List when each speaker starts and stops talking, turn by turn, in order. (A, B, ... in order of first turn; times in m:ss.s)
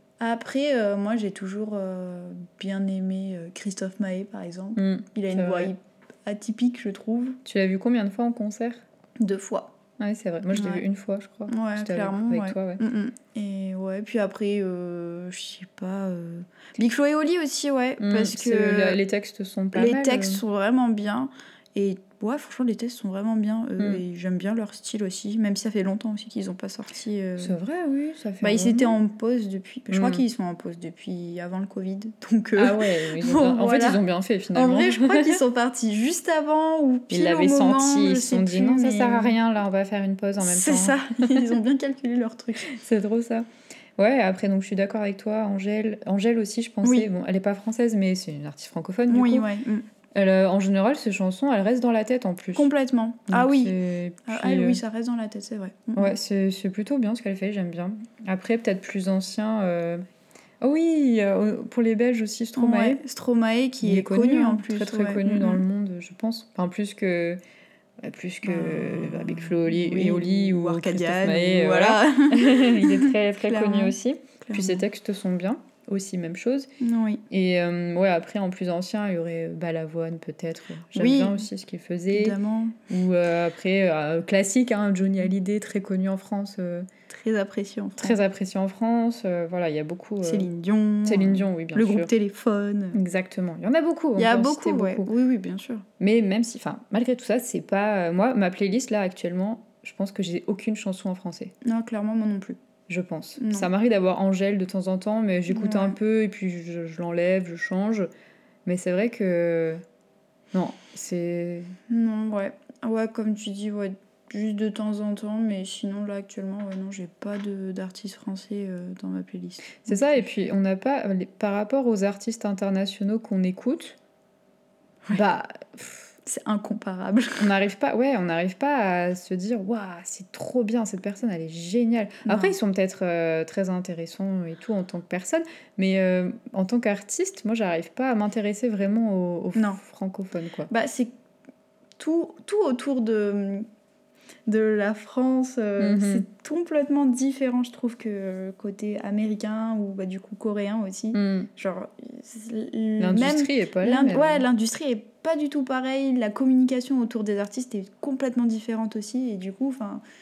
0:00.2-0:07.4 A
0:04.8-0:05.7 B
0:07.4-0:08.8 B
0:09.2-0:09.7 A
0:10.0-0:12.8 B
0:10.5-0:10.8 A
0:11.5-0:19.0 A
0:18.0-0:20.4 B
0:19.7-0:27.6 A
0:27.4-0:29.0 B
0:28.4-0:34.0 A
0:29.9-0:30.2 B
0:32.6-0:35.4 B
0:34.5-0:39.4 A
0:37.1-0:41.5 B
0:40.4-0:42.7 A
0:42.6-0:43.5 B
0:44.0-0:49.5 B
0:46.8-0:47.1 A
0:49.1-0:49.9 A
0:50.2-0:52.7 B
0:52.6-0:53.8 A
0:53.3-0:54.8 B
0:54.3-0:56.2 A
0:56.0-1:00.0 B
1:00.6-1:03.0 B
1:02.6-1:05.6 A
1:03.8-1:07.4 B
1:08.0-1:16.7 B
1:08.4-1:14.8 A
1:16.8-1:17.2 A
1:17.3-1:22.4 B
1:21.0-1:21.4 A
1:22.1-1:22.8 A
1:22.9-1:26.9 B
1:27.1-1:28.2 A
1:28.0-1:30.5 B
1:30.2-1:33.0 A
1:31.0-1:32.1 B
1:32.9-1:35.1 B
1:34.2-1:35.8 A
1:36.0-1:41.5 B
1:41.6-1:42.6 A
1:42.9-1:48.1 B
1:43.4-1:43.7 A
1:45.5-1:46.0 A
1:48.7-1:49.8 B
1:50.5-1:51.7 B
1:51.9-2:00.2 A
1:59.8-2:04.0 B
2:05.1-2:06.1 B
2:06.2-2:07.5 A
2:07.4-2:20.7 B
2:12.3-2:12.6 A
2:20.7-2:21.1 A
2:22.0-2:23.6 A
2:24.5-2:40.0 A
2:25.8-2:26.2 B
2:31.1-2:31.5 B
2:33.0-2:34.4 B